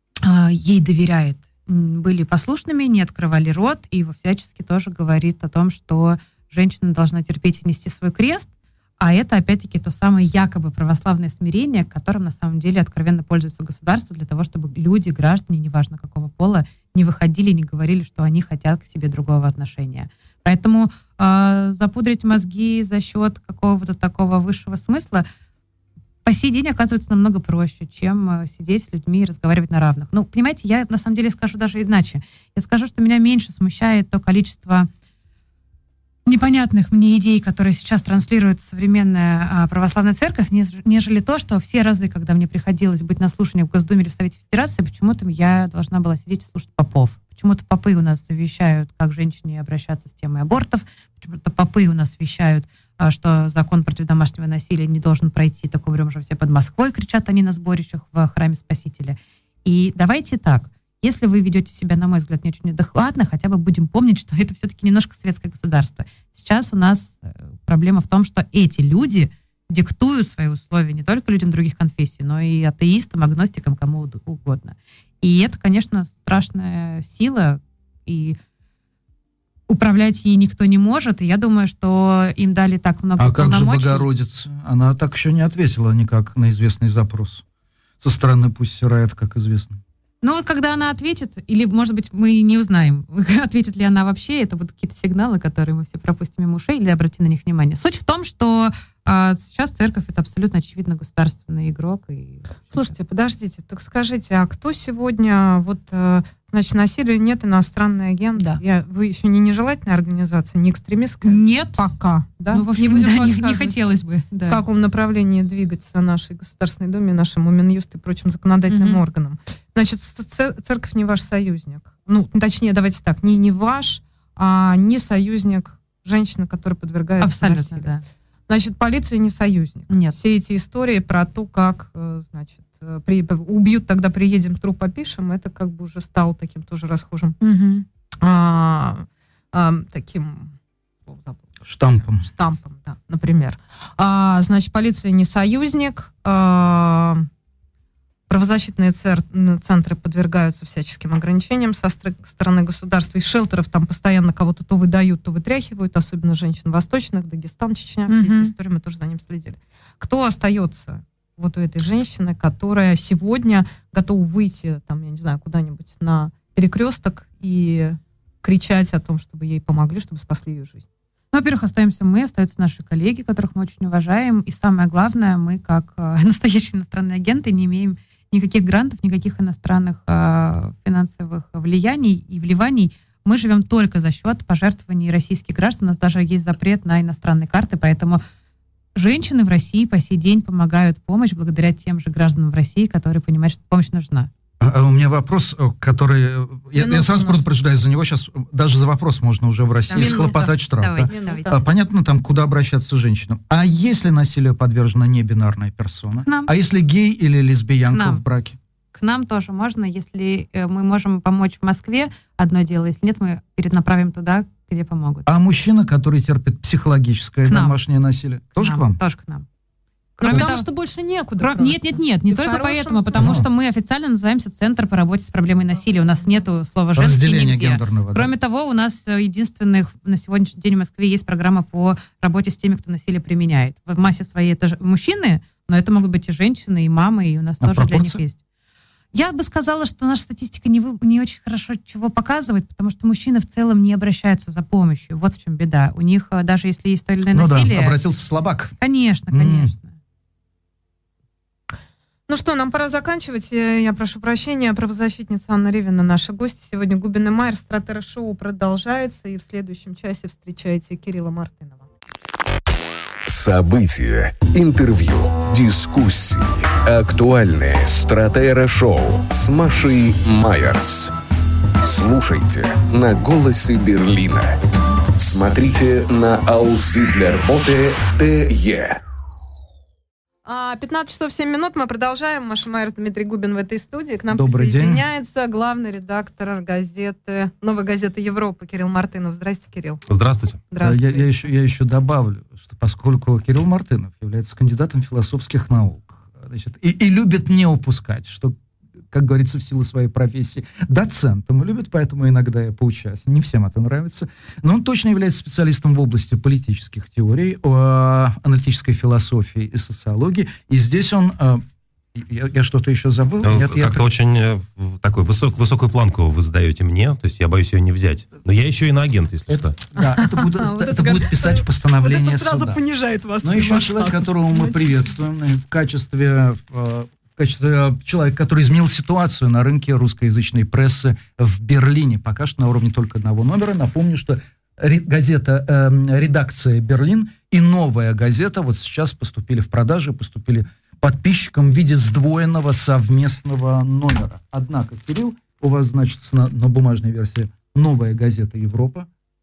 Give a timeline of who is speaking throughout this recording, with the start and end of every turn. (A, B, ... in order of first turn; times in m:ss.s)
0:00.2-0:25.3 A
0:26.2-0:34.9 A
0:36.2-1:18.4 A
1:19.7-1:24.1 A
1:23.2-1:27.4 B
1:28.0-1:29.8 B
1:30.2-1:42.9 A
1:42.7-1:53.8 C
1:51.2-1:51.8 A
1:52.5-1:54.6 A
1:54.5-2:07.9 C
1:58.7-1:59.0 A
2:07.2-2:08.0 A
2:08.5-2:17.4 C
2:09.9-2:10.2 A
2:17.4-2:17.8 A
2:18.2-2:20.5 C
2:21.0-2:21.5 C
2:21.6-2:22.3 B
2:22.0-2:27.3 C
2:28.3-2:50.8 C
2:38.1-2:38.5 A
2:51.3-3:08.2 A
3:08.9-3:14.3 A
3:14.6-3:28.6 B
3:16.8-3:17.4 C
3:19.9-3:21.6 A
3:19.9-3:21.6 C
3:26.2-3:26.5 A
3:27.9-3:28.2 A
3:28.9-3:35.2 A
3:35.2-3:39.0 B
3:37.4-3:37.8 A
3:38.5-3:39.4 A
3:40.2-3:40.6 A
3:40.2-3:43.4 C
3:40.3-3:40.5 B
3:41.4-3:58.4 A
3:43.2-3:43.5 B
3:46.9-3:48.3 B
3:57.6-3:58.2 B
3:59.1-4:08.0 A
4:07.3-4:08.7 B
4:08.8-4:10.0 A
4:09.3-4:09.7 B
4:12.3-4:21.8 C
4:23.3-4:31.1 D
4:31.8-4:34.6 D
4:35.2-4:39.0 D
4:40.4-4:50.0 C
4:44.3-4:45.0 B
4:50.1-4:50.6 E
4:50.7-4:51.4 C
4:50.8-4:58.6 B
4:59.1-5:11.6 B
5:12.1-5:14.0 B
5:13.4-5:19.8 E
5:19.5-5:22.8 B
5:20.0-5:24.8 C
5:23.4-5:49.1 B